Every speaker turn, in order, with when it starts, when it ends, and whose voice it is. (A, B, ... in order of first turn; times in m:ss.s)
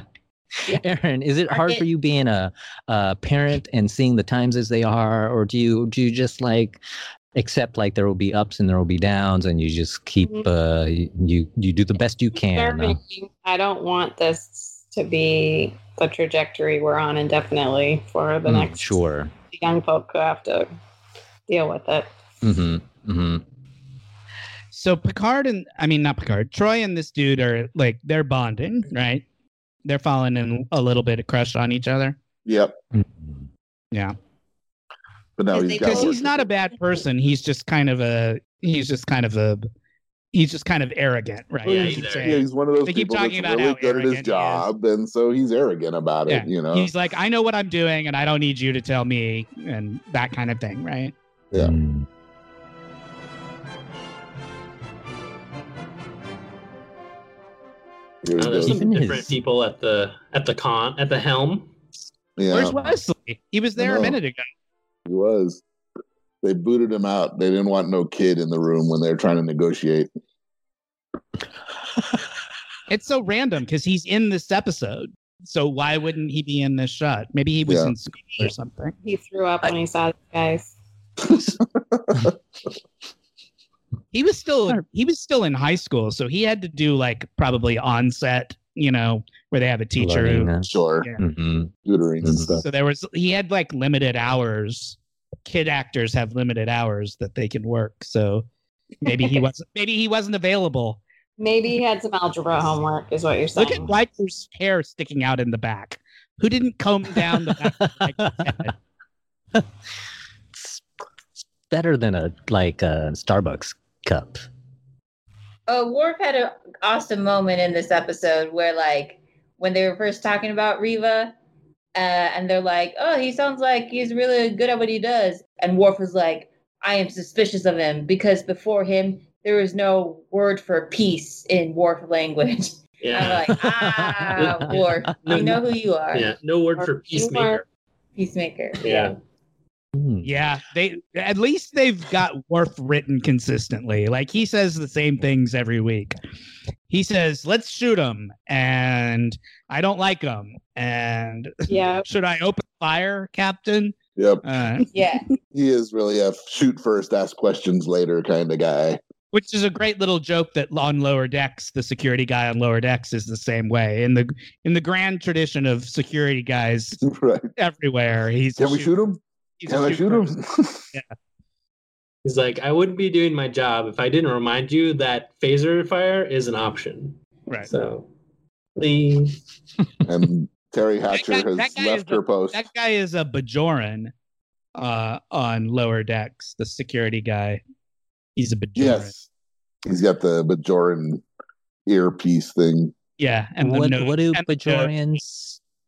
0:00.7-0:06.8 A
0:01.5-0:01.8 B
0:07.4-0:13.0 A
0:10.2-0:10.5 C
0:12.4-0:19.0 C
0:18.4-0:19.3 A
0:19.5-0:20.7 C
0:21.5-0:22.1 C
0:22.4-0:23.4 A
0:24.7-0:29.2 D
0:29.8-0:32.2 D
0:32.4-0:32.8 E
0:32.9-0:33.5 A
0:35.4-0:36.5 E
0:35.5-0:36.2 B
0:35.8-0:39.7 D
0:40.3-0:44.7 D
0:41.6-0:42.4 F
0:41.8-0:46.9 E
0:46.3-0:51.1 D
0:51.6-0:52.1 A
0:58.2-0:58.9 E
0:58.4-1:01.7 F
0:58.6-0:59.4 A
1:02.4-1:02.8 E
1:02.5-1:04.5 D
1:03.8-1:04.2 E
1:05.1-1:05.6 E
1:06.4-1:10.1 E
1:12.9-1:18.9 D
1:17.7-1:17.9 E
1:19.0-1:20.8 C
1:21.2-1:22.3 E
1:24.1-1:31.2 D
1:30.0-1:31.7 A
1:30.7-1:31.1 E
1:31.8-1:32.6 E
1:32.2-1:32.6 A
1:32.6-1:38.5 D
1:39.0-1:41.0 D
1:39.1-1:39.4 C
1:41.4-1:43.9 C
1:43.6-1:48.7 D
1:47.4-1:48.7 A
1:50.5-1:50.8 A
1:51.4-1:54.4 A
1:55.7-2:01.4 B
2:02.0-2:16.3 B
2:13.0-2:13.5 F
2:13.4-2:15.5 A
2:14.4-2:15.6 F
2:16.1-2:17.6 F
2:16.8-2:17.6 C
2:18.2-2:19.1 B
2:18.8-2:19.2 F
2:20.0-2:20.3 A
2:20.2-2:26.2 D
2:26.9-2:34.9 D
2:31.7-2:32.1 C
2:34.2-2:34.4 E
2:34.9-2:35.2 B
2:35.5-2:39.0 E
2:39.3-2:47.0 D
2:47.0-2:47.5 E
2:47.6-2:48.9 D
2:48.6-2:50.9 E
2:49.6-2:50.3 D
2:52.2-2:58.1 F
2:58.8-2:59.4 F
3:00.1-3:02.6 E
3:01.1-3:04.1 D
3:04.8-3:07.6 D
3:08.4-3:09.1 D
3:08.8-3:09.3 E
3:09.8-3:11.2 E
3:11.9-3:12.9 E
3:13.2-3:14.9 D
3:13.6-3:15.6 A